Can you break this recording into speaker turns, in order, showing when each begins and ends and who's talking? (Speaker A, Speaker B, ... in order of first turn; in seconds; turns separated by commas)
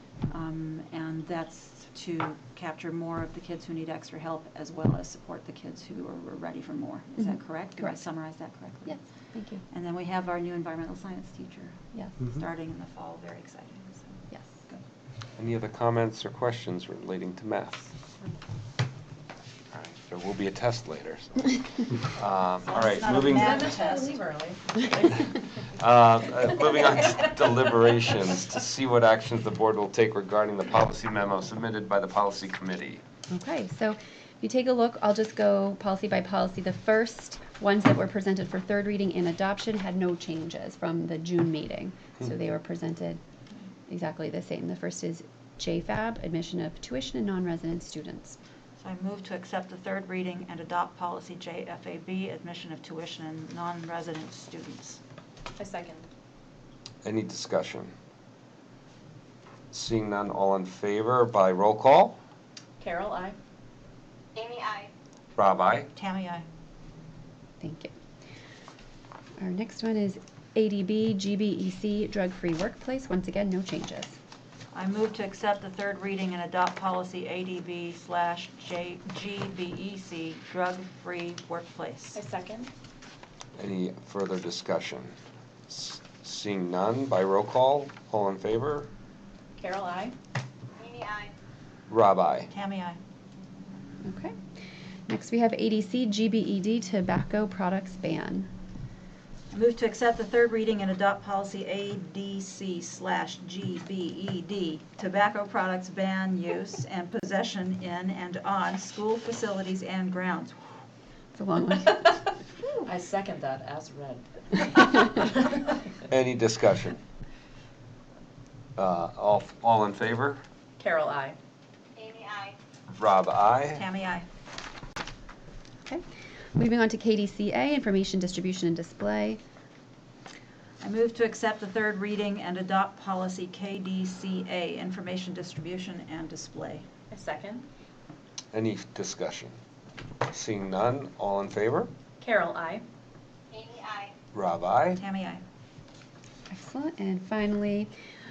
Speaker A: 0.3-9.0, Speaker B: 8.9-9.6, Speaker A: 9.7-14.8, Speaker C: 15.4-17.9, Speaker C: 19.7-23.8, Speaker A: 22.6-24.2, Speaker D: 23.3-25.4, Speaker C: 25.8-33.0, Speaker B: 33.3-43.2, Speaker B: 43.9-48.4, Speaker A: 48.8-55.0, Speaker D: 55.6-56.1, Speaker C: 57.0-57.9, Speaker C: 59.7-62.2, Speaker D: 62.8-63.4, Speaker E: 64.3-64.9, Speaker C: 65.4-65.9, Speaker A: 65.9-66.5, Speaker B: 67.6-67.9, Speaker B: 69.4-74.2, Speaker A: 74.7-82.2, Speaker D: 82.1-82.7, Speaker C: 83.6-85.1, Speaker C: 85.7-88.9, Speaker D: 89.6-90.2, Speaker E: 90.8-91.3, Speaker C: 91.9-92.5, Speaker A: 92.5-93.0, Speaker B: 94.0-94.3, Speaker B: 95.1-98.5, Speaker A: 99.5-110.8, Speaker B: 111.3-112.2, Speaker D: 112.9-115.7, Speaker C: 116.1-117.0, Speaker C: 118.8-120.4, Speaker D: 120.8-121.4, Speaker E: 122.0-122.5, Speaker C: 122.9-123.8, Speaker A: 123.7-124.3, Speaker B: 126.6-129.4, Speaker A: 130.8-136.9, Speaker D: 137.1-137.7, Speaker C: 138.5-139.5, Speaker C: 140.3-141.9, Speaker D: 142.2-142.8, Speaker E: 143.5-144.1, Speaker C: 144.3-145.0, Speaker A: 144.9-145.4, Speaker B: 146.5-147.9